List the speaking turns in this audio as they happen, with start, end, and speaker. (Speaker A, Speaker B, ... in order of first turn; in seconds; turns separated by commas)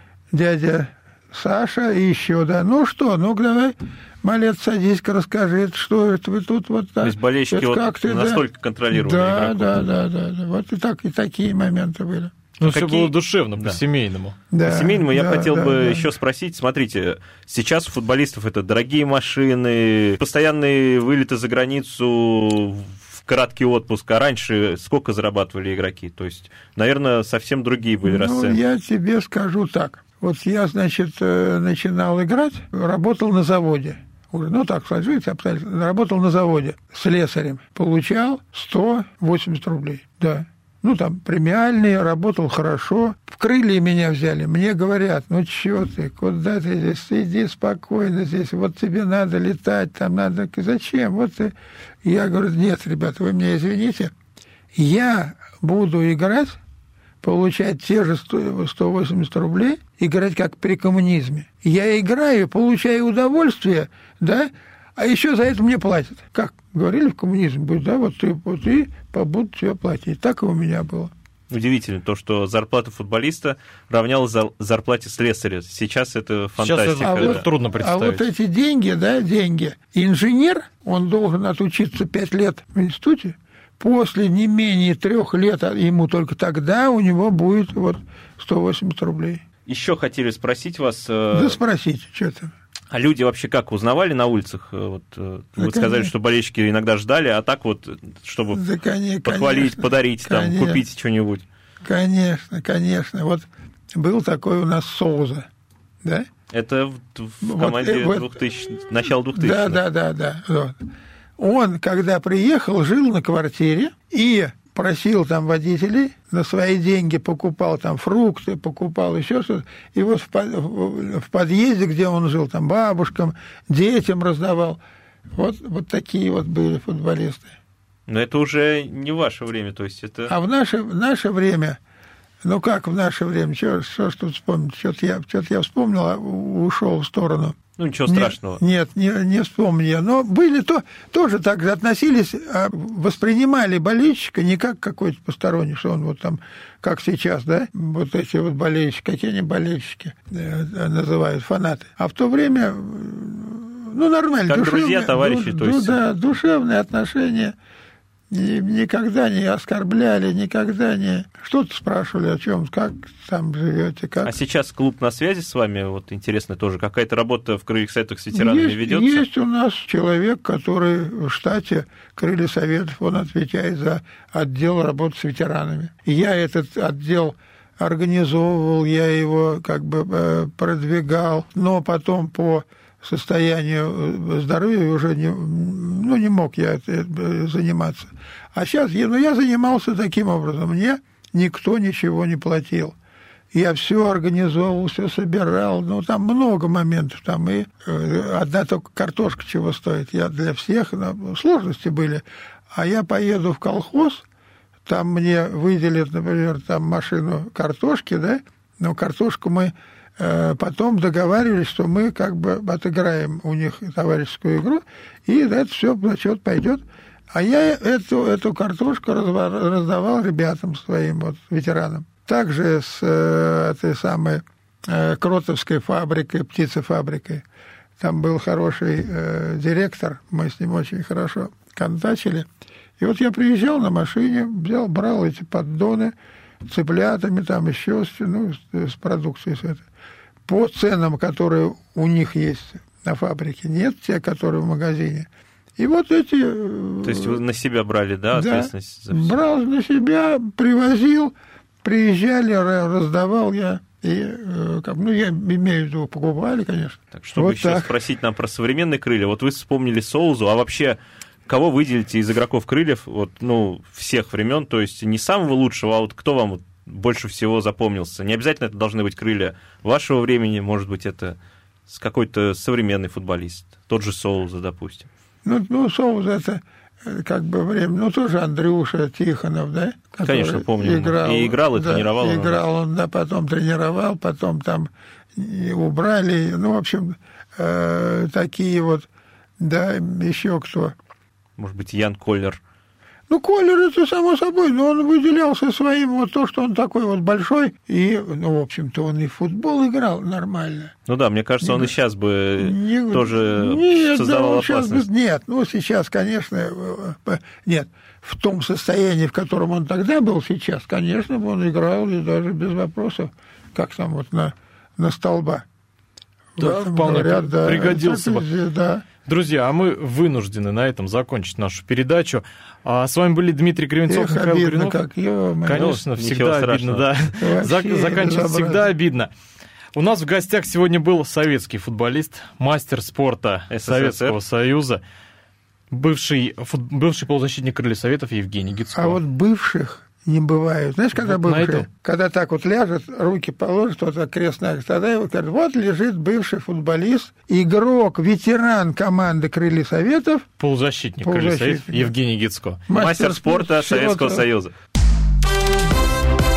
Speaker A: 0.3-12.3, Speaker B: 7.0-9.9, Speaker C: 12.6-14.4, Speaker B: 12.6-13.8, Speaker A: 14.5-16.1, Speaker B: 14.6-28.6, Speaker A: 28.0-54.1, Speaker A: 54.7-56.6, Speaker A: 57.2-71.1, Speaker B: 71.5-77.5, Speaker C: 76.6-78.2, Speaker A: 77.0-89.4, Speaker B: 89.7-91.6, Speaker A: 91.3-92.5, Speaker B: 92.9-98.6, Speaker A: 95.6-96.1, Speaker A: 98.5-100.8, Speaker B: 99.2-101.4, Speaker A: 101.8-105.5, Speaker A: 106.0-106.3, Speaker B: 106.5-109.8, Speaker A: 107.4-108.3, Speaker A: 109.3-110.8, Speaker A: 111.4-124.8, Speaker A: 125.3-127.5, Speaker B: 128.1-130.3, Speaker A: 130.3-131.8, Speaker A: 132.4-157.5, Speaker B: 137.8-138.6, Speaker B: 154.5-156.0, Speaker A: 158.3-164.3, Speaker B: 164.2-169.2, Speaker A: 168.3-192.9, Speaker A: 193.5-204.2, Speaker A: 204.8-227.4, Speaker A: 228.0-232.5, Speaker A: 233.0-239.8, Speaker A: 240.5-247.4, Speaker B: 247.0-249.4, Speaker A: 248.3-257.9, Speaker B: 257.1-271.4, Speaker B: 271.9-275.1, Speaker A: 275.4-289.1, Speaker B: 280.2-282.6, Speaker A: 289.6-290.9, Speaker B: 291.6-292.6, Speaker A: 293.3-300.9, Speaker B: 301.1-305.1, Speaker A: 301.6-301.9, Speaker A: 302.6-315.6, Speaker A: 316.6-319.0, Speaker C: 316.6-318.4, Speaker C: 319.2-325.0, Speaker A: 324.1-325.9, Speaker C: 325.6-329.3, Speaker B: 325.7-327.1, Speaker A: 327.4-328.9, Speaker C: 329.9-335.0, Speaker B: 333.7-334.4, Speaker C: 335.9-339.2, Speaker A: 338.9-350.5, Speaker C: 341.1-341.9, Speaker C: 350.6-352.8, Speaker A: 351.2-352.1, Speaker A: 352.9-354.4, Speaker B: 352.9-354.7